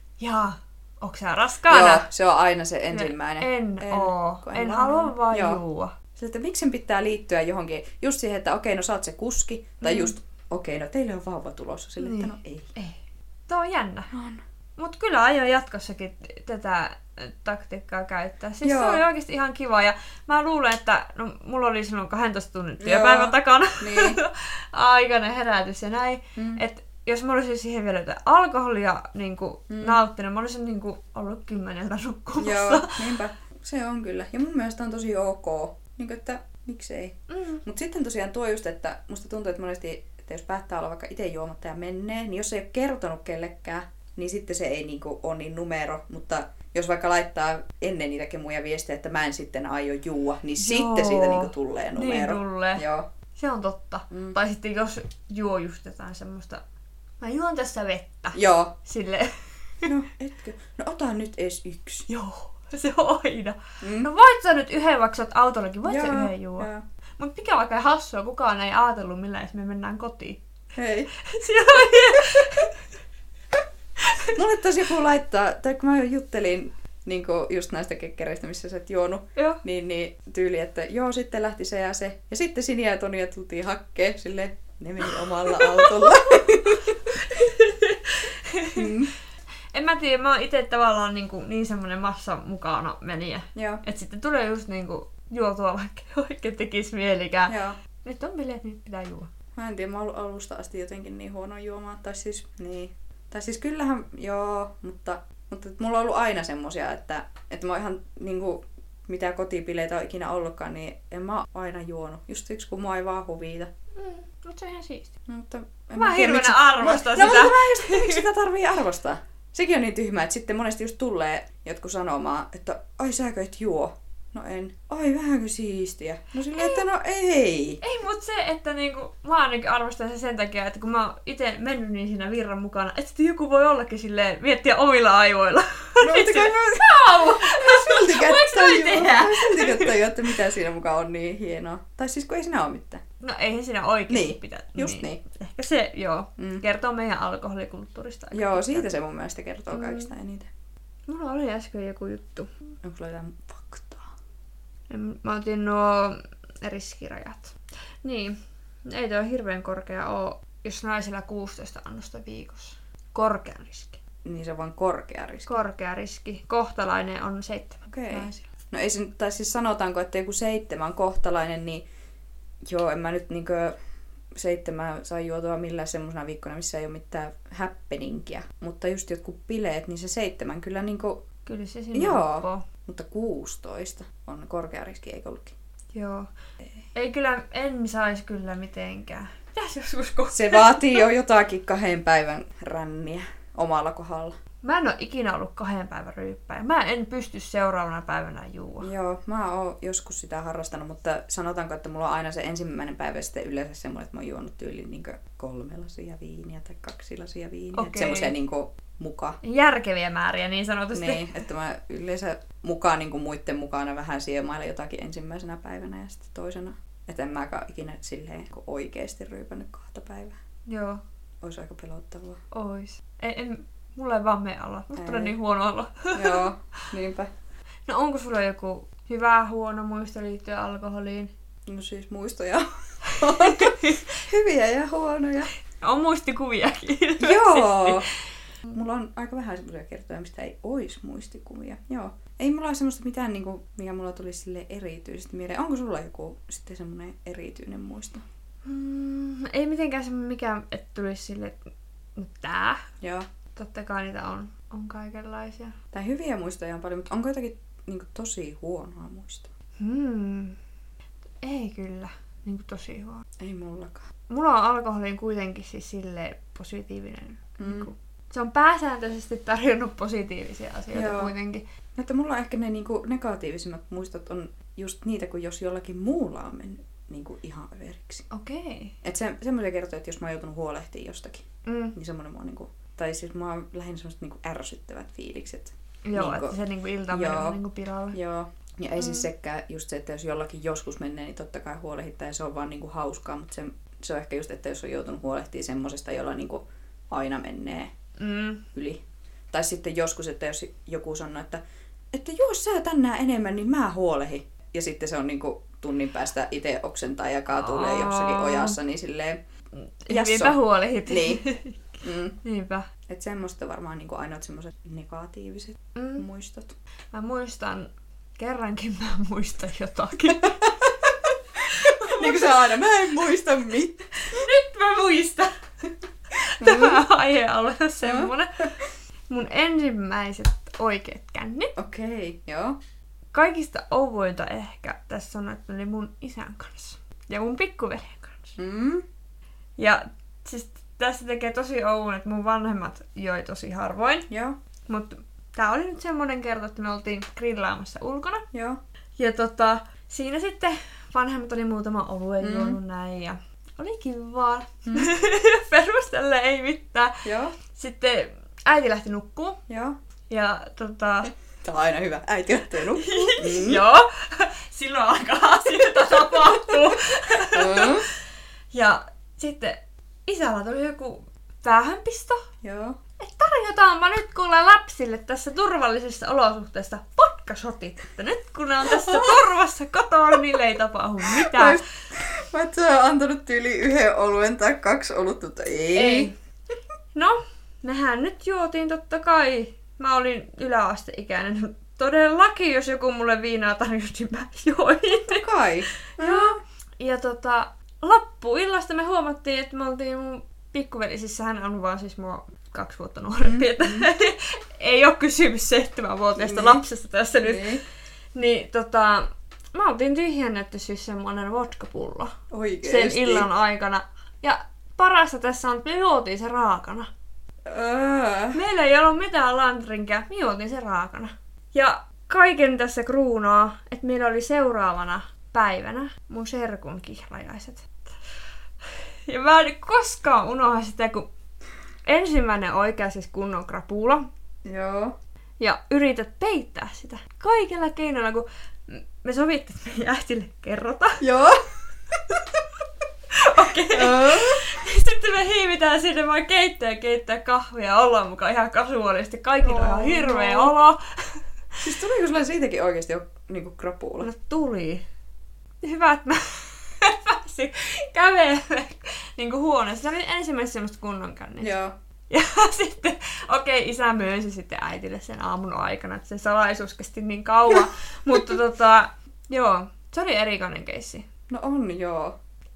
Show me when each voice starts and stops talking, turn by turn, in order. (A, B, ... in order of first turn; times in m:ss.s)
0:00.2-0:02.1 A
0:01.7-0:05.6 B
0:02.9-0:05.9 A
0:06.1-0:12.7 B
0:09.8-0:10.1 A
0:12.0-0:14.1 A
0:14.1-0:14.4 B
0:14.8-0:33.0 A
0:18.6-0:19.0 B
0:22.8-0:24.2 B
0:26.4-0:26.6 B
0:29.7-0:30.0 B
0:32.4-0:53.0 B
0:37.3-0:37.6 A
0:50.6-0:56.6 A
0:54.1-0:54.4 B
0:57.2-0:59.9 A
0:58.3-0:58.7 B
0:59.8-1:02.1 B
1:02.1-1:10.4 A
1:03.8-1:04.1 B
1:05.8-1:06.8 B
1:10.7-1:11.1 B
1:11.1-1:12.8 A
1:11.8-1:12.5 B
1:14.0-1:14.4 A
1:14.3-1:27.0 B
1:19.4-1:19.6 A
1:25.4-1:26.4 A
1:27.1-1:28.9 A
1:28.7-1:29.1 B
1:29.7-1:39.3 A
1:33.5-1:33.8 B
1:37.5-1:37.8 B
1:39.6-1:53.7 B
1:53.9-1:55.1 A
1:55.3-2:07.8 B
1:55.9-1:58.2 A
2:06.5-2:06.8 A
2:07.8-2:20.0 A
2:16.0-2:23.0 B
2:23.2-2:28.9 A
2:24.1-2:25.2 B
2:26.4-2:26.6 B
2:28.3-2:30.5 B
2:29.7-2:30.1 A
2:31.1-2:32.5 A
2:32.8-2:34.1 B
2:34.9-2:44.0 A
2:44.2-2:45.6 B
2:45.5-2:48.4 A
2:47.9-2:51.8 B
2:52.6-2:53.7 B
2:54.3-3:01.2 B
3:01.4-3:02.6 A
3:01.9-3:05.5 B
3:05.9-3:06.3 A
3:06.9-3:11.0 A
3:10.3-3:14.4 B
3:14.6-3:18.9 A
3:18.8-3:29.4 B
3:27.7-3:28.3 A
3:29.4-3:31.4 A
3:30.9-3:40.4 B
3:40.7-3:41.0 A
3:41.4-3:42.4 B
3:42.5-3:46.5 A
3:45.0-3:45.3 B
3:46.1-3:47.3 B
3:47.9-3:51.3 A
3:51.6-3:55.5 B
3:53.1-3:54.1 A
3:55.8-3:58.0 A
3:57.2-3:58.1 B
3:58.7-4:08.2 B
4:08.6-4:12.9 A
4:13.0-4:13.2 B
4:13.5-4:15.8 A
4:15.9-4:19.5 B
4:19.8-4:20.6 A
4:21.4-4:23.2 A
4:23.4-4:24.0 B
4:24.3-4:31.6 A
4:27.6-4:27.9 B
4:30.9-4:31.3 B
4:32.0-4:38.2 B
4:38.3-4:39.0 A
4:39.0-4:46.6 B
4:41.6-4:42.0 A
4:46.0-4:48.2 A
4:47.1-4:47.6 B
4:48.1-4:57.9 B
4:49.0-4:49.3 A
4:58.2-4:58.6 A
4:58.7-5:01.6 B
5:02.1-5:09.4 B
5:07.5-5:08.8 A
5:09.8-5:12.9 A
5:10.1-5:11.4 B
5:12.0-5:12.4 B
5:13.1-5:16.7 B
5:15.9-5:16.2 A
5:17.1-5:20.7 A
5:20.4-5:21.1 B
5:21.7-5:22.6 A
5:21.7-5:24.4 B
5:24.3-5:25.5 A
5:26.4-5:28.7 A
5:26.6-5:27.0 B
5:28.0-5:28.6 B
5:29.3-5:31.7 A
5:31.8-5:32.8 B
5:33.3-5:38.6 A
5:38.6-5:39.0 B
5:39.8-5:44.3 A
5:44.3-5:44.5 B
5:44.9-5:48.4 A
5:48.5-5:48.8 B
5:49.2-5:59.6 A
5:52.4-5:52.8 B
5:54.8-5:55.1 B
5:57.2-5:57.6 B
5:59.7-5:59.9 B
6:00.3-6:01.3 A
6:01.6-6:03.8 B
6:03.0-6:08.0 A
6:07.5-6:08.1 B
6:08.7-6:12.4 A
6:12.6-6:13.0 B
6:13.2-6:21.8 A
6:18.9-6:19.4 B
6:21.3-6:26.3 B
6:25.9-6:26.3 A
6:27.1-6:35.4 A
6:35.3-6:36.6 B
6:36.1-6:47.8 A
6:43.4-6:44.1 B
6:46.4-6:46.8 B
6:47.4-6:47.8 B
6:48.3-6:57.1 A
6:52.5-6:53.5 B
6:57.7-6:58.6 B
6:58.5-7:08.1 A
7:08.8-7:11.3 A
7:12.0-7:14.2 A
7:14.6-7:15.1 B
7:15.6-7:21.3 A
7:21.2-7:21.6 B
7:23.3-7:31.4 A
7:23.7-7:24.7 B
7:29.6-7:30.7 B
7:31.8-7:34.3 B
7:34.2-7:35.0 A
7:35.8-7:41.7 A
7:41.6-7:41.9 B
7:42.3-7:51.2 A
7:51.5-7:52.4 B